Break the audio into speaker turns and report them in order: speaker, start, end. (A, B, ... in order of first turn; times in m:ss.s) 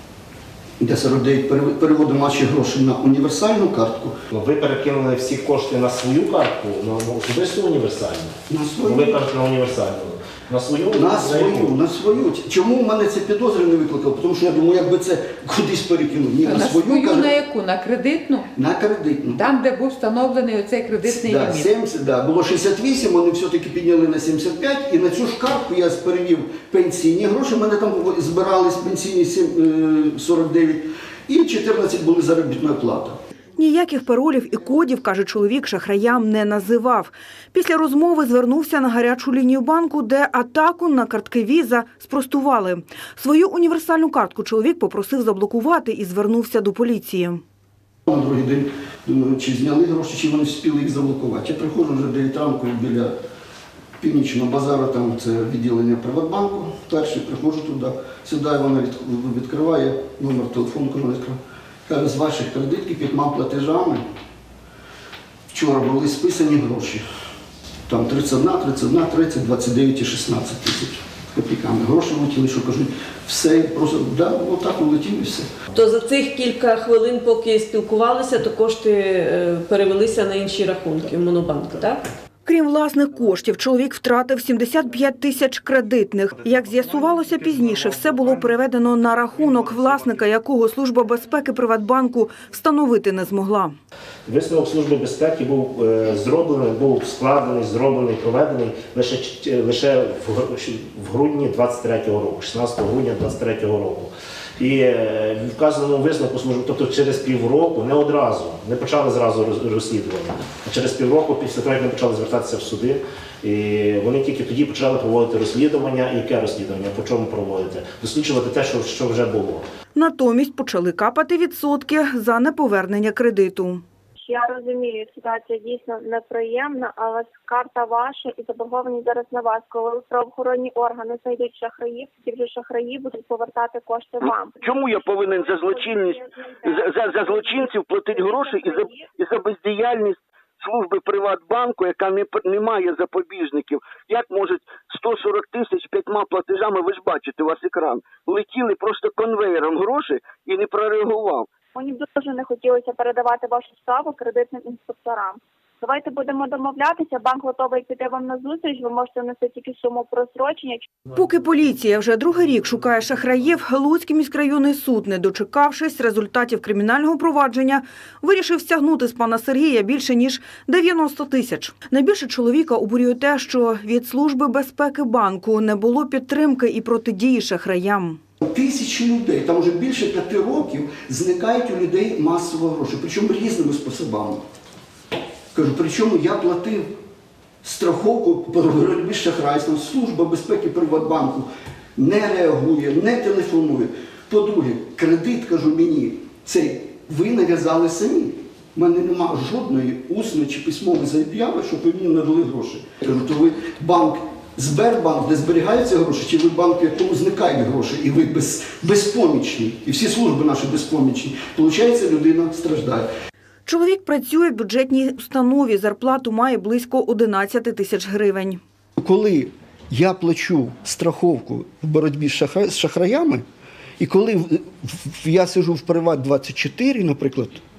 0:00.8-0:04.2 A
0:04.3-0:11.7 B
0:08.5-0:09.2 A
0:10.9-0:17.4 A
0:16.4-0:18.5 C
0:18.6-0:19.5 A
0:19.3-0:21.7 C
0:21.1-0:33.2 A
0:33.6-0:47.4 D
0:48.1-0:53.2 A
0:54.0-1:04.0 A
1:05.5-1:07.0 A
1:07.9-1:15.5 A
1:15.7-1:22.0 E
1:22.5-1:33.8 D
1:34.3-1:59.7 B
2:00.0-2:03.8 D
2:04.3-2:19.1 F
2:14.6-2:31.5 G
2:31.8-2:40.8 F
2:41.1-2:58.2 D
2:58.4-3:04.4 A
3:05.5-3:07.0 A
3:07.6-3:33.1 A
3:33.7-3:38.6 D
3:39.0-3:43.4 A
3:44.0-3:47.6 A